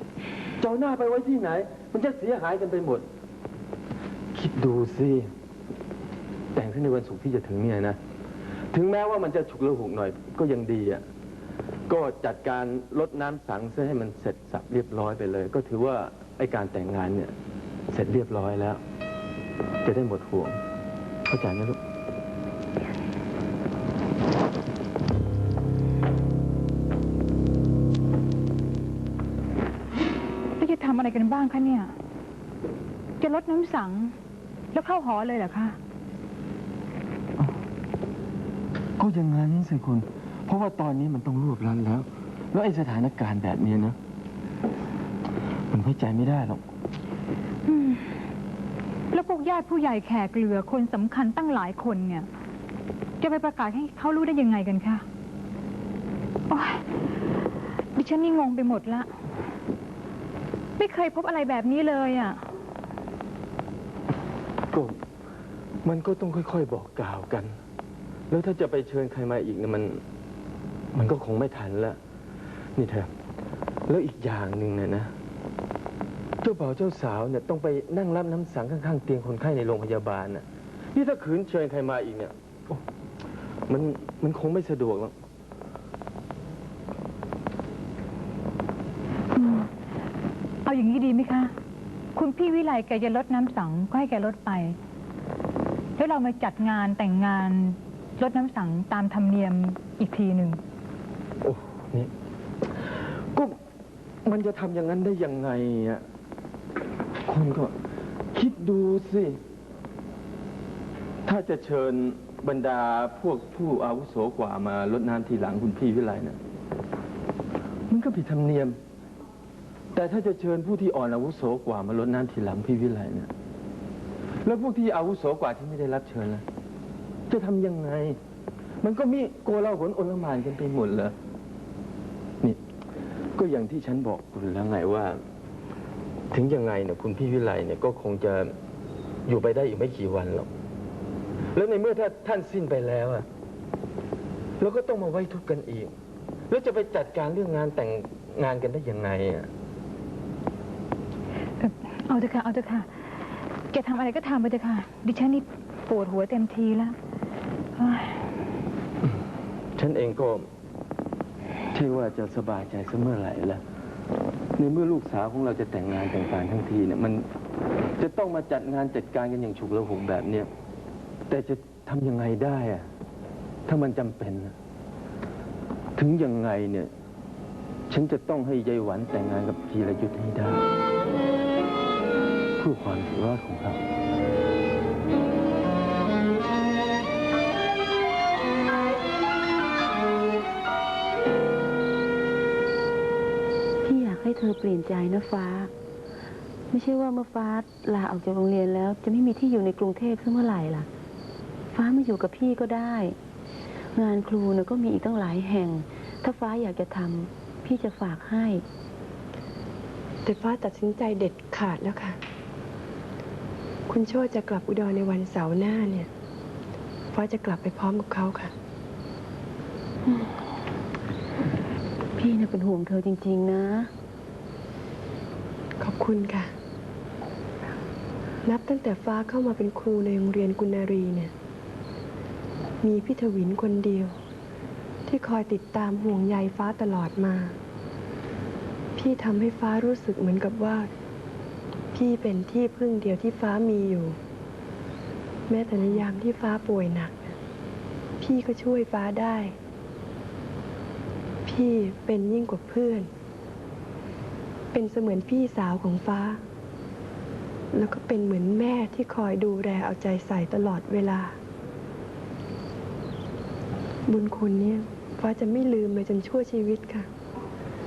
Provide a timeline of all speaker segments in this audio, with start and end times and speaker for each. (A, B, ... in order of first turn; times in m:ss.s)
0:00.6-0:03.0 A
0:04.3-0:05.3 A
0:06.5-0:08.0 A
0:08.7-0:11.0 A
0:11.9-0:17.3 A
0:17.9-0:18.8 A
0:19.8-0:20.6 A
0:21.3-0:21.8 A
0:30.6-0:31.9 B
0:33.2-0:34.1 B
0:34.7-0:35.8 B
0:39.0-0:44.0 A
0:45.7-0:46.6 A
0:47.7-0:48.1 B
0:49.1-0:52.3 B
0:53.2-0:55.0 B
0:56.5-0:56.8 B
0:58.0-0:59.1 B
1:00.8-1:02.4 B
1:05.8-1:07.5 A
1:08.3-1:10.0 A
1:10.9-1:12.0 A
1:12.8-1:13.1 A
1:13.9-1:15.1 A
1:16.4-1:22.8 A
1:23.7-1:25.1 A
1:29.3-1:29.7 B
1:30.6-1:31.5 B
1:32.1-1:34.8 B
1:36.0-1:40.6 B
1:41.4-1:42.1 A
1:44.2-1:46.0 A
1:47.2-1:47.7 A
1:48.3-1:49.3 A
1:51.2-1:56.4 A
1:57.9-1:58.7 A
1:59.9-2:03.3 A
2:04.4-2:06.4 A
2:07.3-2:08.1 A
2:08.8-2:11.1 A
2:13.4-2:15.2 A
2:16.3-2:18.5 A
2:19.3-2:20.5 A
2:21.5-2:23.2 A
2:24.6-2:25.9 A
2:26.5-2:29.5 A
2:31.6-2:32.9 B
2:33.7-2:36.9 B
2:37.8-2:38.2 B
2:39.8-2:40.5 A
2:41.7-2:43.6 A
2:44.6-2:47.2 A
2:48.0-2:50.5 A
2:51.3-2:52.8 A
2:53.7-2:54.5 A
2:56.0-2:56.9 A
2:57.9-3:00.6 A
3:02.6-3:03.8 A
3:13.8-3:15.7 C
3:16.7-3:20.9 C
3:21.7-3:23.2 C
3:23.9-3:28.6 C
3:30.2-3:32.2 D
3:33.9-3:36.1 D
3:37.1-3:38.5 D
3:42.2-3:43.9 C
3:45.8-3:46.5 D
3:48.4-3:51.3 D
3:52.8-3:54.2 D
3:55.1-3:57.6 D
3:59.0-4:00.9 D
4:01.9-4:04.2 D
4:05.5-4:07.3 D
4:08.2-4:09.5 D
4:11.4-4:13.1 D
4:14.7-4:16.4 D
4:17.7-4:21.4 D
4:24.1-4:27.1 D